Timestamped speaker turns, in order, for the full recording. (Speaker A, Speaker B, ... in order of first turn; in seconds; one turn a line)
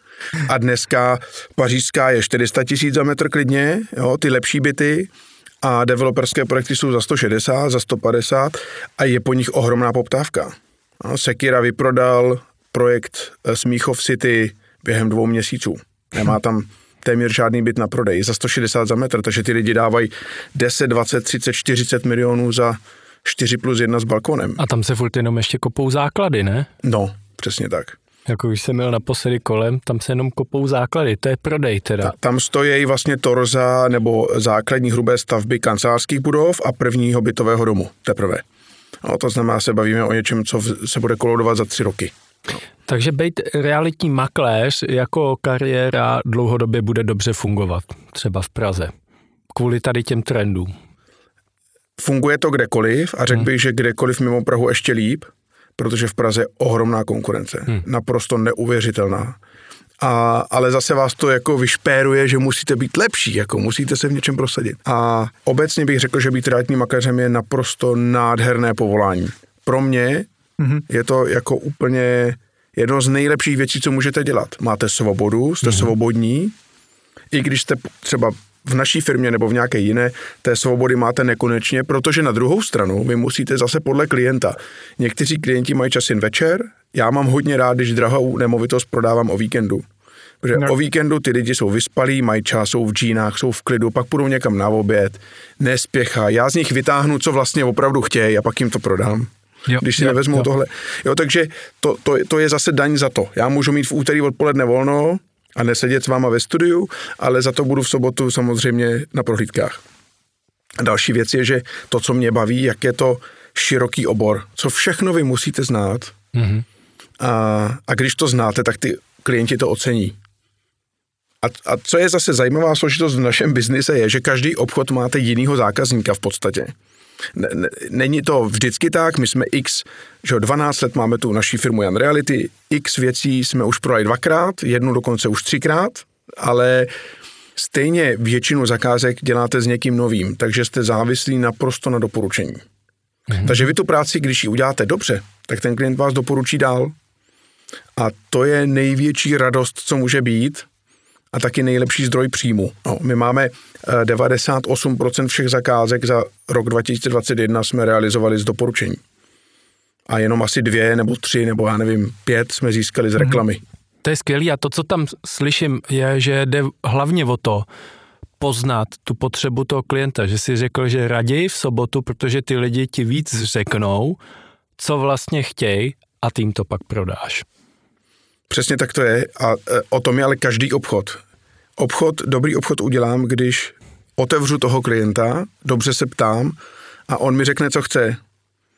Speaker A: 0.4-5.1
Speaker A: 5.6-24.6
Speaker B: 24.6-26.7
Speaker A: 26.8-28.0
Speaker B: 28.3-32.1
Speaker A: 32.0-38.4
Speaker A: 39.0-42.1
Speaker B: 42.9-48.9
Speaker B: 49.5-50.7
Speaker A: 52.0-59.4
Speaker A: 60.0-70.3
Speaker A: 70.9-76.5
Speaker A: 77.3-89.8
Speaker A: 90.4-109.8
Speaker A: 110.8-116.2
Speaker B: 116.3-116.7
Speaker A: 117.2-120.2
Speaker A: 121.4-126.7
Speaker A: 127.3-136.9
Speaker A: 137.6-142.6
Speaker A: 143.4-146.9
Speaker A: 148.0-150.7
Speaker A: 151.3-159.0
Speaker A: 160.1-163.6
Speaker B: 164.0-167.7
Speaker B: 168.4-174.2
Speaker B: 174.8-177.4
Speaker A: 178.5-181.2
Speaker A: 181.8-186.6
Speaker A: 187.1-188.2